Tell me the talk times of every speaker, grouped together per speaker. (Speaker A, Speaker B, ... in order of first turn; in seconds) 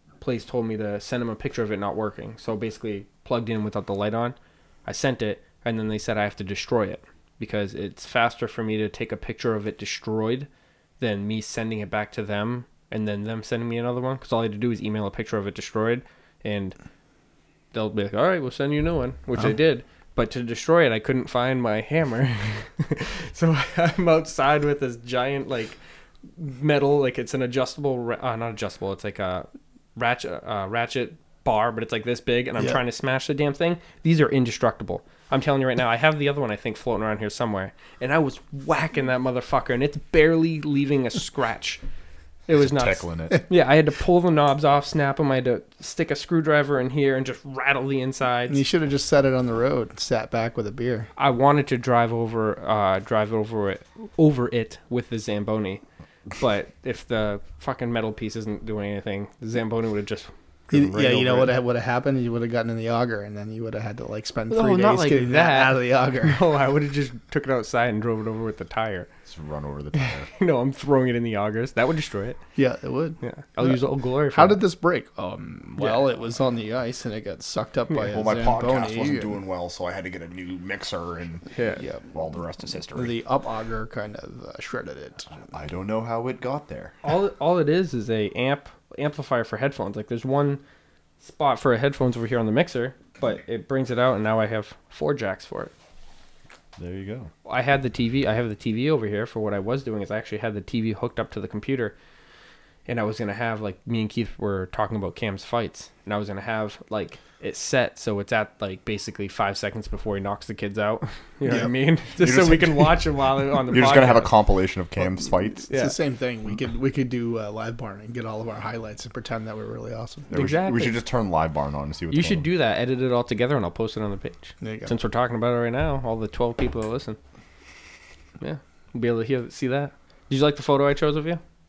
Speaker A: 0.2-10.5, 11.0-16.8, 17.7-25.8, 26.3-41.8, 42.5-48.6, 51.2-55.8, 56.4-61.5, 64.5-69.1, 70.3-72.4, 73.2-74.6, 81.5-81.8, 87.0-90.6, 91.2-95.7, 97.5-102.0, 102.8-114.3, 115.7-116.0, 120.3-121.0, 122.1-127.2, 128.4-131.4
Speaker B: 42.6-43.4, 69.3-70.3, 78.0-83.1, 85.3-87.0, 96.8-97.3, 112.2-112.9, 113.7-115.7, 120.3-122.5
Speaker C: 48.5-51.1, 60.7-66.4, 72.5-73.8, 74.3-79.3, 82.9-85.3, 115.6-120.3, 124.6-124.9